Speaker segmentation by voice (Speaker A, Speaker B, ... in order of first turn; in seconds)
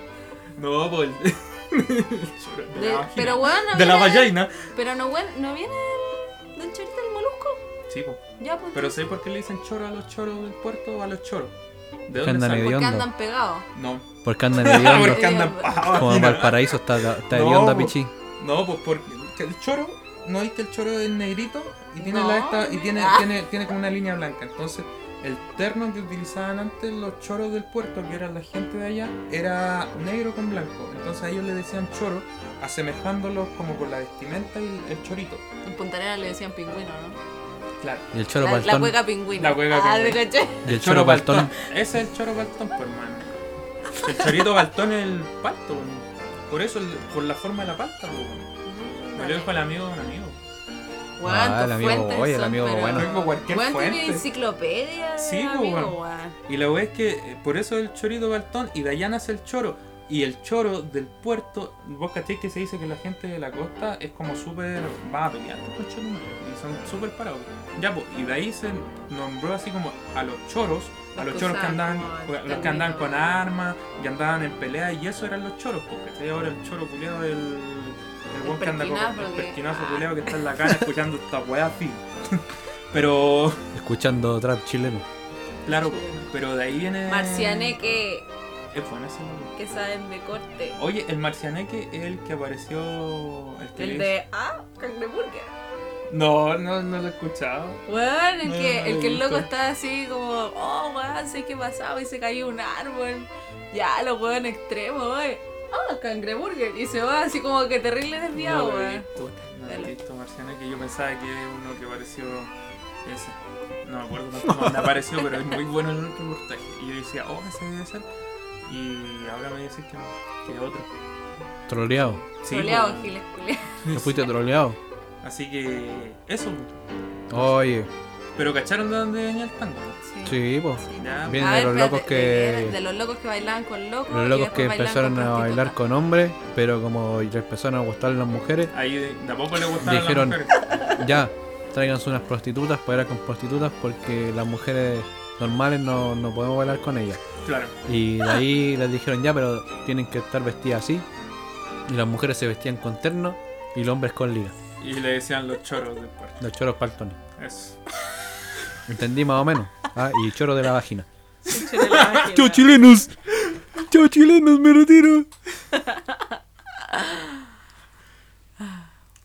Speaker A: 0.6-4.7, 7.9-8.2, 8.7-11.6, 12.1-12.8, 13.7-35.4, 37.8-38.1, 39.3-43.3, 43.9-48.5, 49.1-50.4, 52.9-54.2, 55.2-83.7, 85.7-87.8, 88.7-89.5, 90.8-94.2, 96.1-97.8, 98.4-99.5, 108.3-112.5, 113.0-118.0, 118.7-120.9, 121.9-123.1, 123.8-124.2, 125.2-126.7, 127.3-127.6, 128.3-130.0, 131.0-131.7, 138.7-140.5, 147.4-147.7, 154.8-156.4, 157.4-157.8, 161.6-162.4
Speaker B: 2.7-7.6, 8.4-9.0, 12.5-13.6, 15.0-15.8, 22.0-23.3, 35.6-37.2, 38.4-40.6, 48.6-49.5, 51.2-56.4, 71.1-73.3, 78.4-80.4, 85.6-86.3, 87.0-88.3, 89.5-90.8, 93.8-95.5, 97.8-109.1, 109.7-109.9, 122.5-123.8, 130.0-135.8, 161.4-162.7, 165.7-166.2, 166.8-167.3
Speaker C: 12.2-13.1, 14.2-18.1, 38.1-39.0, 40.6-41.5, 51.2-53.1, 83.7-85.0, 114.4-114.9, 121.7-122.2, 123.9-124.8, 127.3-127.9, 130.2-132.8, 134.1-138.7, 139.8-140.4, 141.0-147.2, 147.8-151.1, 151.8-154.6, 156.4-157.2, 158.9-161.1, 162.2-163.2, 163.7-165.3